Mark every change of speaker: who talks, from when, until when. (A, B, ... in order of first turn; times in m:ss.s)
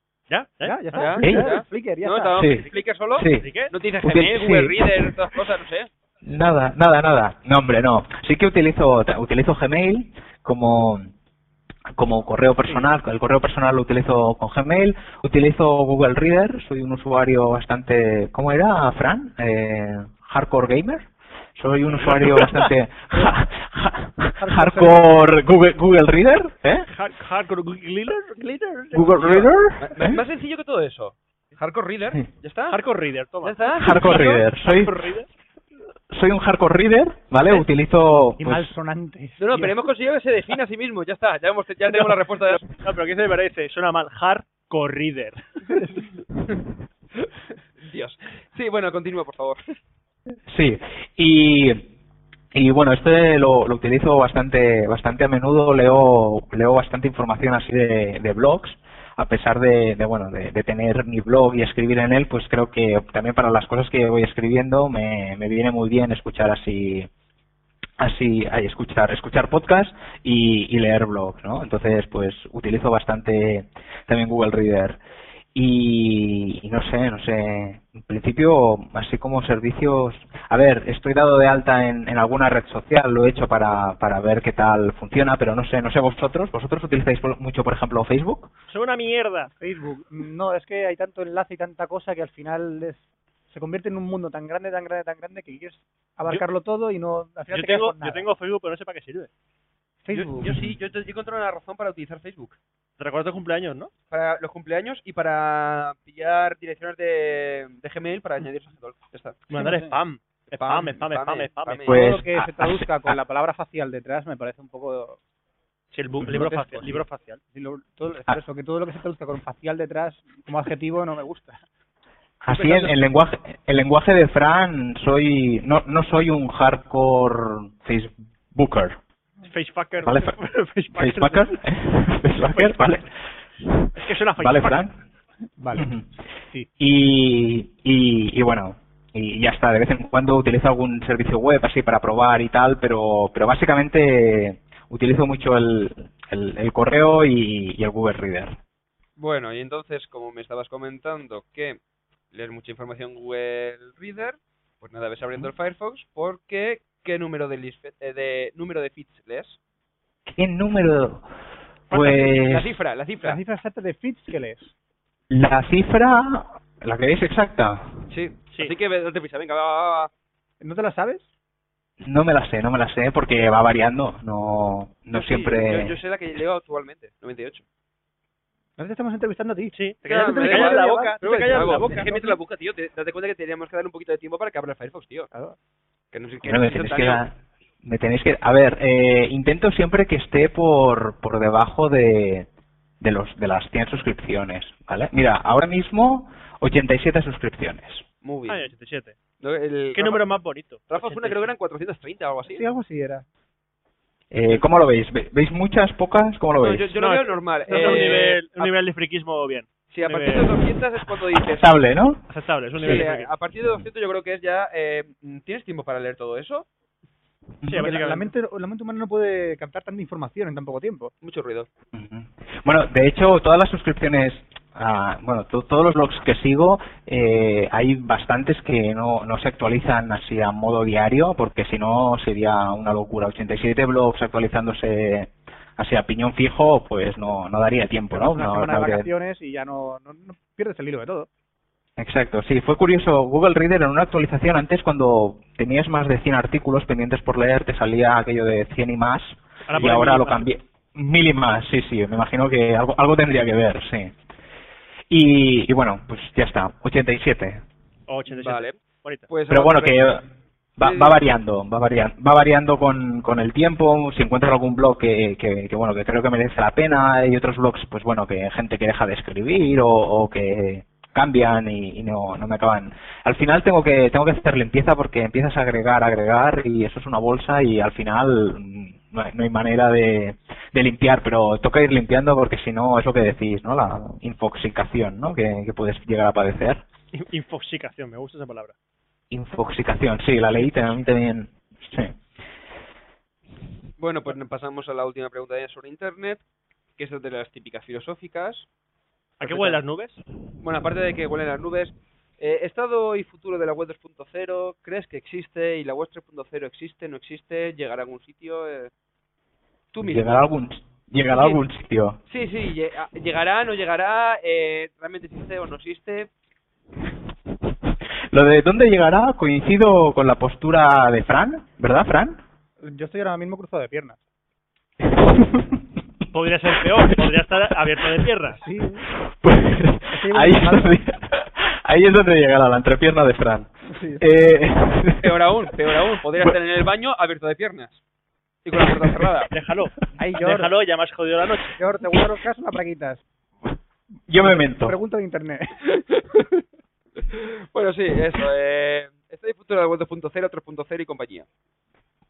0:00.3-0:01.1 A
0:00.6-0:02.4 B
0:00.9-0:05.9 C
0:01.2-0:01.5 D
0:02.4-0:03.5 D
0:03.4-0:03.7 A
0:04.0-0:05.1 D
0:06.2-0:11.1 D
0:12.0-0:26.9 D
0:21.9-0:22.7 A
0:24.4-0:25.1 B
0:26.9-0:29.4 A
0:28.9-0:30.2 D
0:29.2-0:32.8 C
0:32.7-0:35.3 A
0:33.4-0:34.4 C
0:33.8-0:35.1 D
0:36.1-0:38.7 D
0:38.4-0:39.7 B
0:39.4-0:42.7 C
0:41.9-0:46.0 A
0:47.8-0:49.6 C
0:50.5-0:51.9 D
0:52.5-1:07.1 D
1:08.0-1:15.0 D
1:15.5-1:28.5 D
1:28.7-1:29.5 A
1:29.6-1:38.3 B
1:37.5-1:39.3 A
1:40.0-1:40.5 B
1:40.1-1:42.6 C
1:43.0-1:43.9 A
1:44.1-1:49.4 C
1:49.5-1:52.0 A
1:49.6-1:50.0 B
1:50.6-1:51.9 C
1:51.9-1:53.2 D
1:51.9-1:55.2 B
1:55.9-1:57.4 A
1:56.2-2:01.6 B
2:02.4-2:09.0 D
2:02.5-2:03.0 A
2:09.5-2:11.6 A
2:10.0-2:10.4 D
2:10.9-2:13.1 D
2:12.5-2:13.0 A
2:13.7-2:14.9 D
2:14.0-2:14.8 A
2:15.6-2:15.9 B
2:15.8-2:16.1 D
2:16.8-2:28.6 D
2:29.2-2:31.8 C
2:32.3-2:39.6 C
2:40.3-2:41.2 D
2:41.9-2:42.7 D
2:41.9-2:43.4 C
2:43.2-2:44.7 B
2:45.3-2:47.9 D
2:48.1-2:50.1 C
2:50.6-2:51.3 B
2:52.0-2:56.0 D
2:55.1-2:57.6 C
2:58.8-3:02.0 B
2:59.7-3:02.4 A
3:00.1-3:05.3 C
3:06.1-3:07.2 C
3:06.4-3:12.5 D
3:13.0-3:18.0 D
3:18.2-3:18.7 C
3:18.5-3:19.2 A
3:19.4-3:20.3 C
3:19.9-3:21.5 A
3:20.9-3:22.6 C
3:22.5-3:23.2 B
3:24.3-3:26.9 D
3:26.6-3:28.7 C
3:27.0-3:30.6 A
3:27.7-3:28.1 B
3:29.9-3:31.7 C
3:31.4-3:32.2 D
3:32.3-3:33.3 A
3:32.8-3:33.1 D
3:32.8-3:36.7 C
3:37.7-3:38.3 A
3:37.8-3:41.1 B
3:41.2-3:41.7 C
3:41.9-3:59.1 D
3:58.1-4:01.3 B
4:02.0-4:14.1 D
4:09.7-4:10.4 A
4:15.1-4:17.6 D
4:18.1-4:19.3 A
4:18.3-4:18.8 C
4:19.3-4:20.2 C
4:19.5-4:20.2 D
4:20.8-4:46.8 D
4:20.8-4:21.2 C
4:47.1-4:48.8 A
4:49.3-4:52.2 D
4:50.6-4:51.0 A
4:54.0-4:56.4 C
4:57.0-4:58.7 C
4:59.4-5:00.2 A
4:59.4-4:59.8 C
5:00.6-5:08.9 C
5:09.9-5:10.4 C
5:10.0-5:12.2 D
5:11.3-5:11.6 C
5:12.3-5:16.3 C
5:18.3-5:22.4 D
5:22.8-5:24.2 B
5:25.0-5:25.8 D
5:26.3-5:28.6 A
5:26.9-5:27.4 D
5:28.6-5:29.1 B
5:29.2-5:35.3 D
5:30.1-5:31.0 B
5:33.9-5:34.4 B
5:35.2-5:38.0 C
5:38.6-5:39.5 C
5:38.9-5:39.1 D
5:39.5-5:41.8 A
5:40.2-5:40.7 B
5:41.8-5:43.2 B
5:44.3-5:45.0 D
5:44.4-5:46.0 B
5:47.3-5:51.5 C